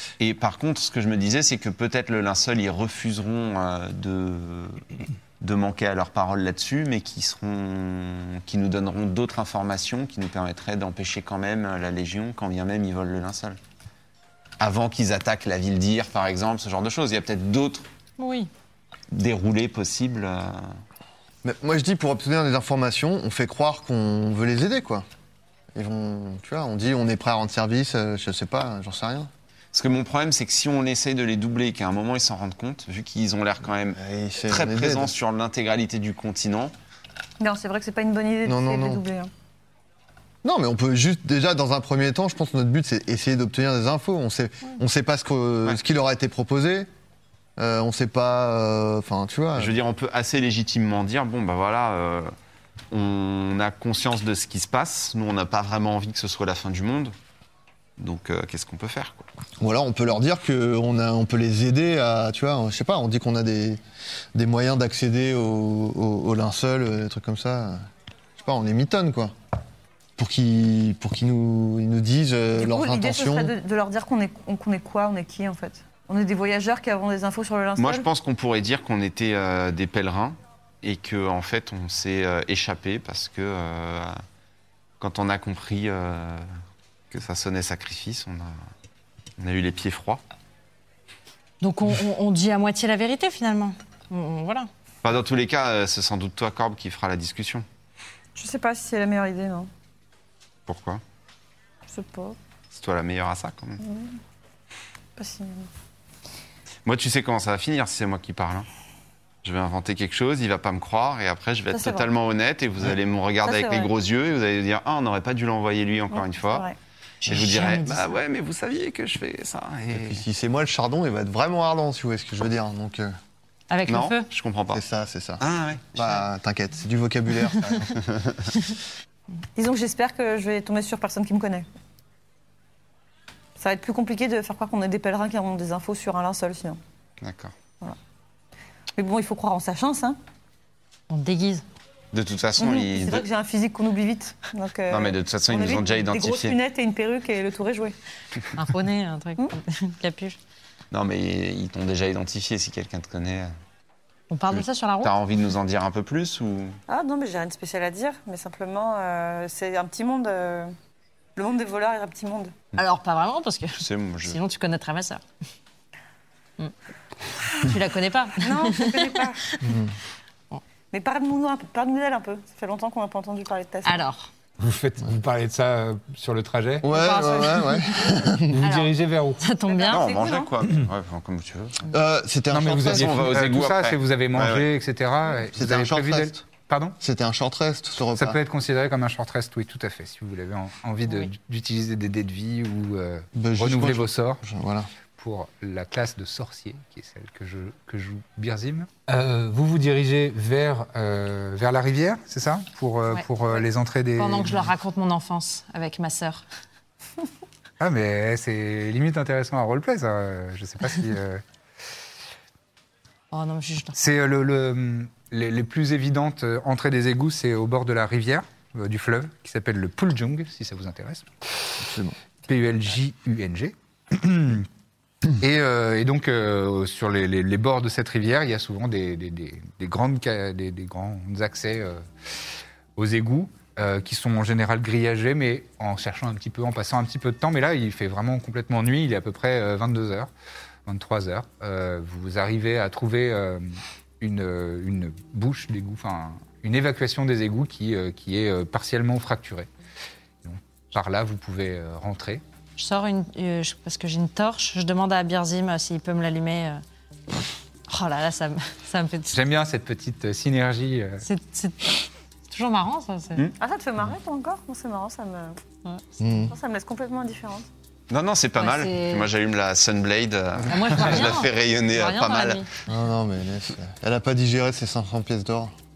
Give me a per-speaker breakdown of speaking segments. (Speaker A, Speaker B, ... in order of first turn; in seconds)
Speaker A: 0.2-4.8, 5.4-13.6, 14.6-17.9, 19.1-20.8, 29.7-36.7, 49.6-52.3, 52.9-57.1, 58.0-59.2, 77.8-84.2, 85.0-86.5, 87.1-88.5, 89.4-90.2, 95.0-97.7, 100.7-101.0, 102.7-103.8, 106.9-108.7, 109.4-116.7, 117.2-120.2, 123.9-124.8, 125.4-126.2, 127.9-128.6, 137.2-137.5, 142.1-143.3, 144.9-146.6, 150.9-153.5, 154.5-156.8, 163.8-164.4, 179.9-181.9, 182.8-184.7, 268.1-272.7
Speaker B: 18.2-18.5, 91.6-94.7, 117.3-118.2, 123.7-124.3, 141.1-141.6, 148.6-150.4, 154.3-155.1, 162.8-165.2, 167.3-169.2, 173.8-174.3, 176.9-180.1, 203.1-203.7, 204.2-206.5, 213.3-214.1, 252.8-256.8, 257.9-259.4, 261.2-263.5, 268.6-269.3, 270.7-272.7
Speaker C: 21.4-25.1, 25.8-29.3, 33.9-35.1, 38.5-39.0, 40.4-46.9, 47.6-49.8, 59.6-63.8, 64.3-67.8, 68.4-69.3, 70.2-73.5, 119.9-123.1, 124.7-128.0, 169.6-169.9, 176.8-178.6, 181.9-183.4, 185.4-186.4, 187.0-188.4, 193.3-194.9, 221.8-222.2, 266.2-266.5, 272.9-275.7
Speaker D: 37.4-39.3, 72.6-78.1, 98.4-99.7, 101.9-102.4, 103.8-104.2, 105.2-105.7, 111.7-112.1, 113.4-113.9, 116.1-116.8, 129.6-131.7, 133.6-136.8, 139.0-140.2, 142.6-147.9, 156.9-160.7, 161.4-162.6, 168.4-169.4, 170.9-174.1, 179.7-180.6, 263.6-265.6, 266.2-267.7
Speaker E: 174.6-176.9, 178.5-179.4, 182.5-187.0, 188.2-194.4, 195.2-204.7, 207.8-211.4, 214.0-221.3, 222.5-224.7, 225.4-232.1, 233.0-240.3, 240.9-249.7, 250.4-252.4, 259.3-261.2